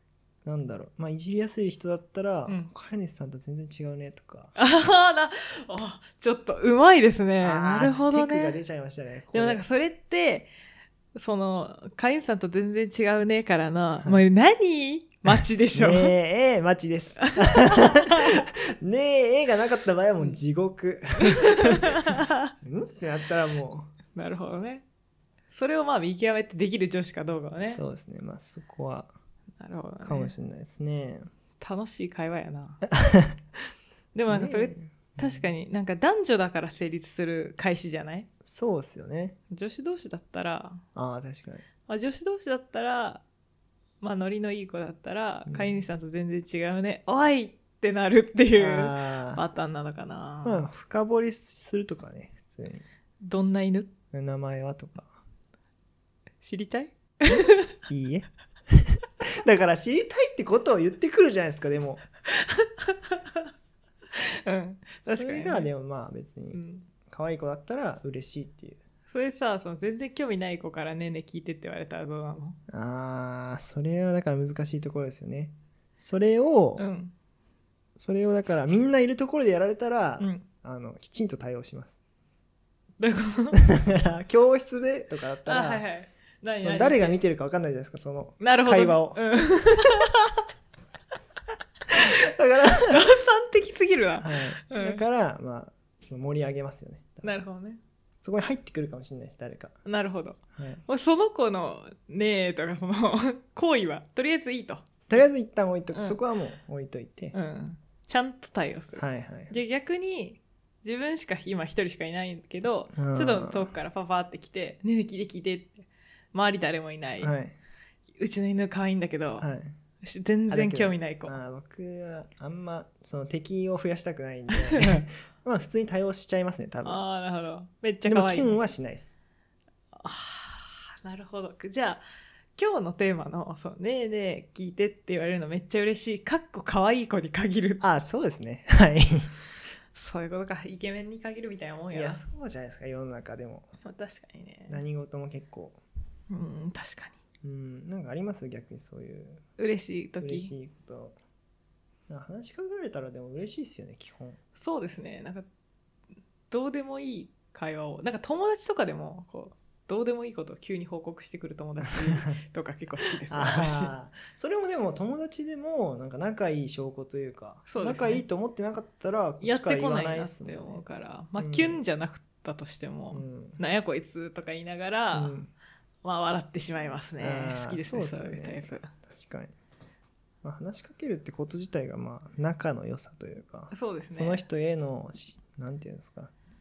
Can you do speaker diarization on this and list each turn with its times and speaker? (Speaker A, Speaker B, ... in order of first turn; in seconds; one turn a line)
Speaker A: 0.5-4.5
Speaker B: 4.6-8.6
Speaker A: 7.4-9.7
Speaker B: 9.3-10.5
Speaker B: 11.2-16.1
Speaker A: 15.3-23.9
Speaker B: 17.2-18.4
Speaker B: 21.4-22.5
Speaker B: 24.1-24.9
Speaker B: 25.5-27.8
Speaker A: 27.6-29.1
Speaker B: 29.6-30.3
Speaker A: 30.0-31.3
Speaker B: 31.6-32.8
Speaker A: 32.9-33.4
Speaker B: 34.1-38.3
Speaker A: 34.3-35.5
Speaker A: 38.5-39.4
Speaker B: 39.5-40.8
Speaker A: 41.0-41.6
Speaker B: 41.9-43.2
Speaker B: 44.0-50.7
Speaker A: 45.5-45.8
Speaker A: 48.5-49.4
Speaker A: 50.4-52.9
Speaker B: 53.2-53.9
Speaker A: 54.1-55.2
Speaker B: 56.4-57.7
Speaker A: 57.9-62.0
Speaker B: 62.3-63.4
Speaker B: 64.1-65.7
Speaker A: 65.1-68.8
Speaker B: 66.5-66.9
Speaker B: 69.1-72.6
Speaker A: 72.7-76.8
Speaker B: 76.8-77.1
Speaker A: 78.0-82.0
Speaker B: 80.2-80.5
Speaker B: 83.0-83.6
Speaker A: 83.5-85.8
Speaker B: 85.5-87.2
Speaker A: 86.6-89.2
Speaker B: 88.4-90.4
Speaker A: 92.0-93.0
Speaker B: 92.9-95.0
Speaker A: 94.2-97.3
Speaker B: 97.2-97.8
Speaker A: 98.2-99.8
Speaker B: 99.8-105.2
Speaker A: 100.6-100.8
Speaker A: 105.1-107.3
Speaker B: 105.9-106.2
Speaker B: 107.3-117.3
Speaker A: 109.0-109.5
Speaker A: 113.0-113.7
Speaker A: 117.2-117.6
Speaker B: 118.2-119.5
Speaker A: 119.4-119.8
Speaker B: 120.0-121.4
Speaker A: 120.5-127.0
Speaker B: 124.7-125.0
Speaker B: 126.8-128.6
Speaker A: 128.1-129.2
Speaker B: 129.9-132.0
Speaker B: 132.6-137.8
Speaker A: 137.8-139.4
Speaker B: 139.9-142.2
Speaker A: 141.9-143.7
Speaker B: 143.8-144.8
Speaker A: 144.7-145.8
Speaker B: 146.3-147.2
Speaker A: 147.4-149.4
Speaker B: 149.6-150.5
Speaker A: 150.2-151.2
Speaker A: 152.1-154.4
Speaker B: 154.6-155.5
Speaker B: 156.5-163.9
Speaker A: 162.1-162.4
Speaker A: 163.3-170.8
Speaker B: 167.7-168.2
Speaker B: 169.4-175.4
Speaker A: 171.4-171.8
Speaker A: 173.1-173.6
Speaker A: 175.1-175.5
Speaker B: 176.0-178.9
Speaker A: 177.2-179.5
Speaker A: 180.4-186.3
Speaker B: 183.7-184.5